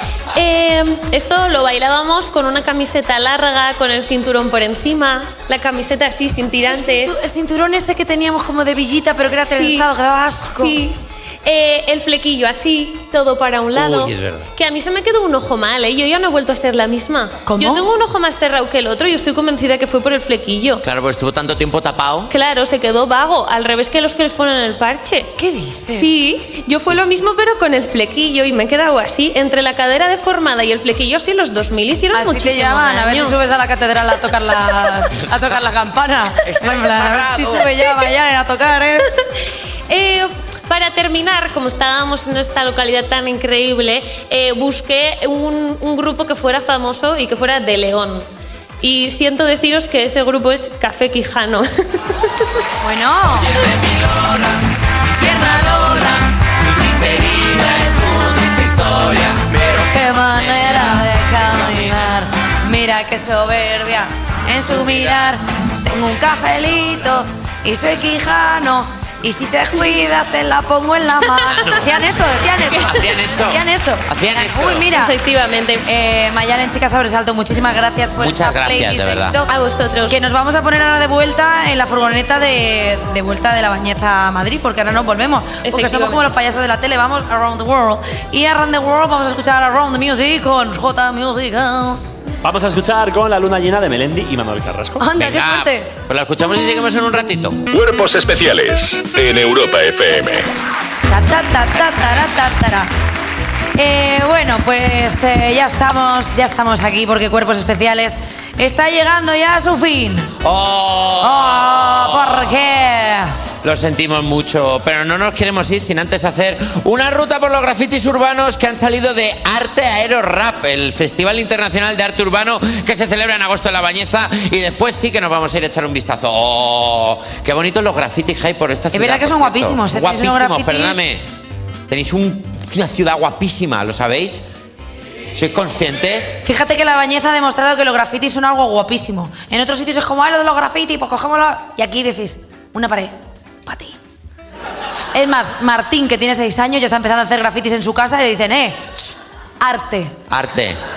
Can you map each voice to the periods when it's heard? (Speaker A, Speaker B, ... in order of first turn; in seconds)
Speaker A: 0.3-7.2, 9.5-9.9, 10.5-20.8, 22.3-25.3, 25.9-33.3, 39.9-48.2, 48.8-51.7, 75.0-75.8, 79.5-80.2, 85.6-86.3
Speaker B: 6.7-10.8, 17.4-17.8, 25.4-26.1, 32.1-39.0, 52.8-53.6, 55.2-56.1, 59.9-75.1, 75.8-79.5, 80.1-92.0, 95.0-95.9, 101.1-102.9, 103.8-110.3, 111.2-113.3, 128.9-131.0, 136.4-143.1, 143.6-143.9, 145.1-149.0, 149.6-150.1
Speaker C: 13.8-14.5, 20.8-22.3, 36.4-37.7, 53.5-54.6, 55.2-55.8, 56.6-61.0, 71.5-71.8, 72.7-74.9, 78.2-79.4, 95.2-97.6, 110.4-112.5, 113.6-131.2, 131.9-134.4, 135.3-136.4, 150.3-150.8
Speaker D: 92.4-95.0
Speaker E: 97.7-100.5